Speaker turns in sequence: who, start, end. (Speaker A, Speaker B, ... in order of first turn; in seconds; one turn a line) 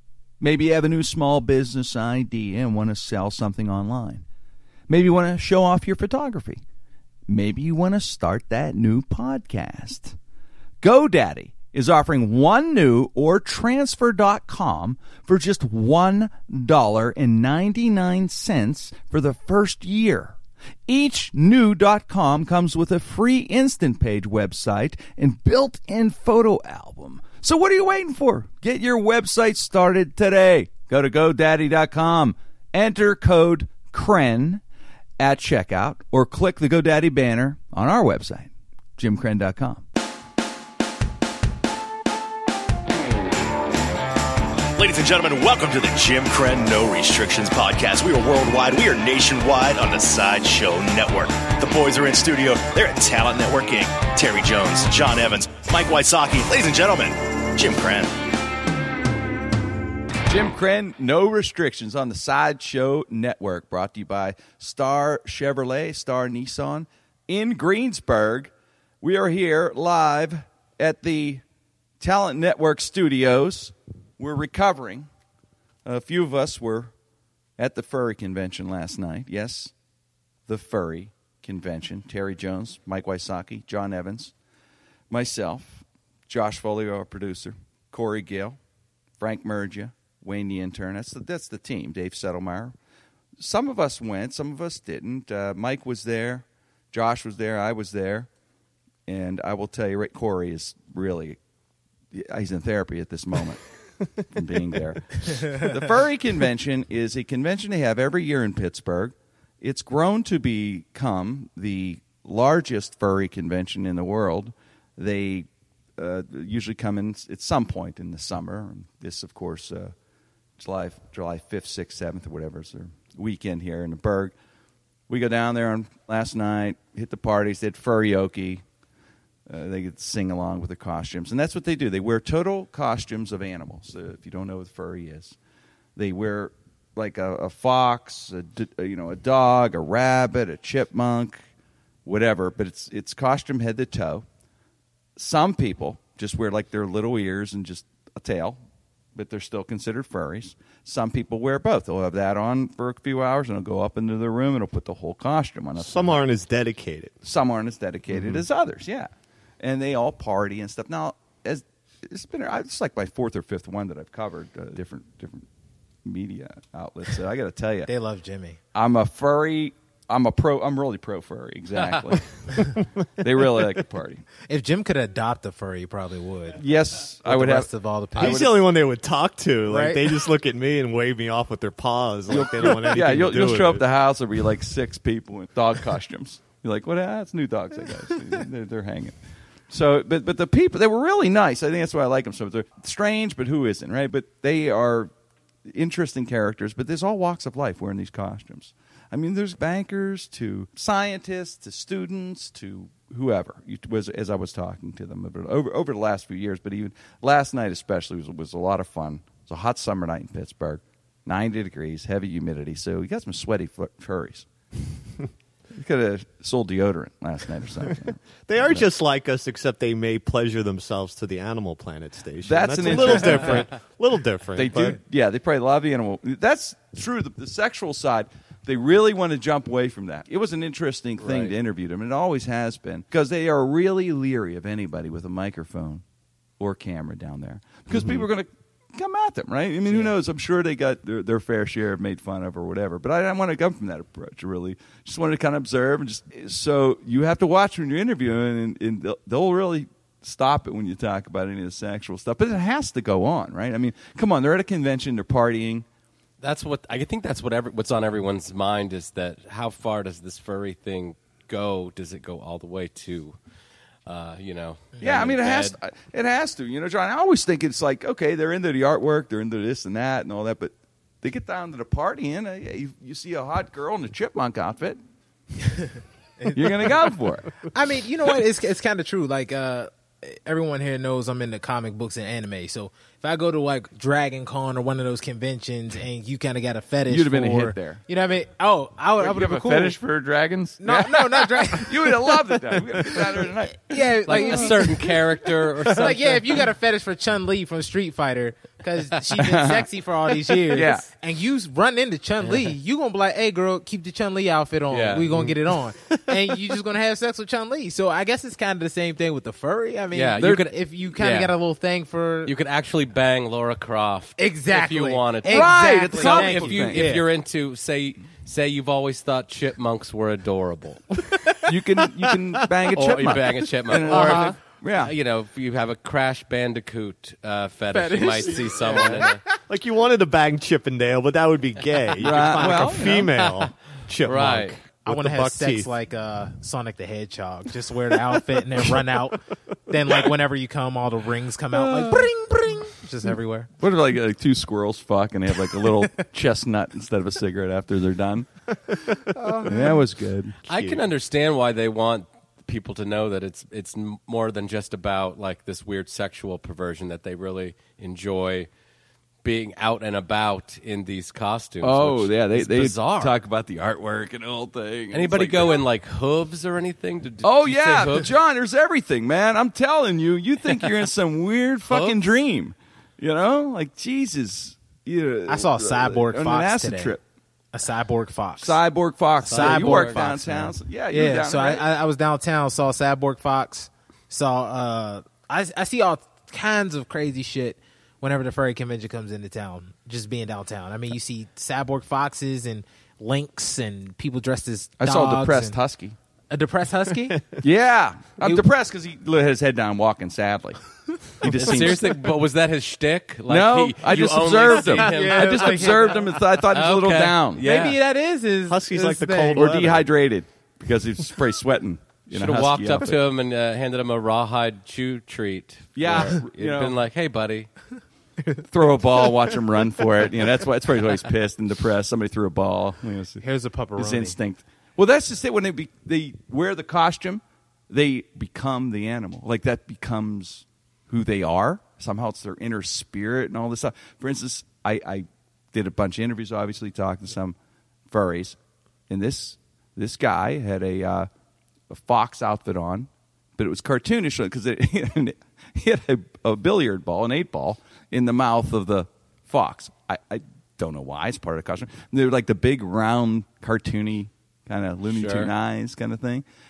Speaker A: 0.4-4.2
Speaker A: 4.9-6.6
Speaker A: 7.3-10.2
Speaker A: 10.8-20.4
Speaker A: 20.9-34.6
Speaker A: 35.2-39.8
Speaker B: 44.7-58.1
Speaker A: 60.2-71.4
Speaker A: 72.0-75.1
Speaker A: 75.8-76.9
Speaker A: 77.6-79.7
Speaker A: 80.5-84.3
Speaker A: 85.1-88.6
Speaker A: 89.2-92.7
Speaker A: 93.4-98.3
Speaker A: 99.1-101.4
Speaker A: 102.1-103.6
Speaker A: 104.2-119.9
Speaker A: 120.6-124.3
Speaker A: 125.1-128.6
Speaker A: 129.5-135.3
Speaker A: 135.9-141.4
Speaker A: 142.0-144.2
Speaker A: 145.2-148.6
Speaker A: 149.1-156.2
Speaker C: 155.8-157.1
Speaker A: 157.2-159.1
Speaker C: 158.1-158.4
Speaker A: 159.6-165.4
Speaker A: 166.0-167.9
Speaker D: 167.9-168.6
Speaker A: 168.7-172.2
Speaker A: 173.2-174.2
Speaker D: 174.5-176.6
Speaker A: 176.6-178.6
Speaker D: 177.2-178.5
Speaker C: 178.1-183.8
Speaker D: 179.7-180.2
Speaker A: 182.3-189.2
Speaker A: 189.7-195.1
Speaker A: 195.7-214.5
Speaker A: 215.7-218.9
Speaker C: 218.5-225.0
Speaker A: 222.4-223.7
Speaker A: 224.6-236.0
Speaker E: 231.2-231.5
Speaker A: 236.6-255.8
Speaker C: 237.9-238.2
Speaker E: 239.9-240.1
Speaker E: 256.4-263.4
Speaker E: 264.1-265.8
Speaker A: 265.0-275.0
Speaker D: 276.4-277.1
Speaker A: 276.5-277.5
Speaker D: 277.7-290.0
Speaker A: 287.1-288.0
Speaker A: 289.2-294.8
Speaker D: 290.8-312.5
Speaker E: 294.3-296.7
Speaker A: 299.4-299.9
Speaker A: 300.7-301.1
Speaker E: 302.4-302.7
Speaker E: 304.9-305.3
Speaker C: 305.3-305.6
Speaker E: 310.1-311.5
Speaker E: 312.4-321.1
Speaker D: 314.4-317.2
Speaker A: 315.4-317.1
Speaker A: 321.6-325.1
Speaker E: 322.9-329.4
Speaker D: 327.9-329.4
Speaker C: 328.8-335.9
Speaker D: 332.2-333.1
Speaker A: 332.2-333.3
Speaker E: 333.4-333.7
Speaker E: 334.2-334.7
Speaker D: 335.0-343.7
Speaker C: 338.8-339.3
Speaker A: 343.8-348.5
Speaker C: 348.9-350.0
Speaker A: 349.6-350.6
Speaker C: 350.7-351.0
Speaker E: 350.7-358.7
Speaker E: 359.4-363.3
Speaker A: 361.8-365.8
Speaker E: 365.1-368.3
Speaker A: 367.4-377.2
Speaker E: 371.9-372.2
Speaker D: 375.5-377.2
Speaker D: 377.7-378.8
Speaker A: 378.6-381.8
Speaker D: 379.4-395.8
Speaker E: 379.4-380.2
Speaker A: 395.0-396.1
Speaker D: 396.5-397.5
Speaker A: 397.6-400.8
Speaker A: 401.3-402.1
Speaker E: 401.4-406.2
Speaker A: 403.5-407.6
Speaker D: 404.7-406.4
Speaker E: 406.7-408.0
Speaker D: 407.6-409.6
Speaker C: 408.7-410.1
Speaker A: 409.6-413.1
Speaker E: 412.3-417.7
Speaker A: 415.9-417.0
Speaker A: 418.7-423.4
Speaker D: 423.4-424.4
Speaker A: 424.0-437.6
Speaker A: 438.1-438.6
Speaker A: 439.1-441.3
Speaker A: 441.9-456.4
Speaker E: 455.1-455.5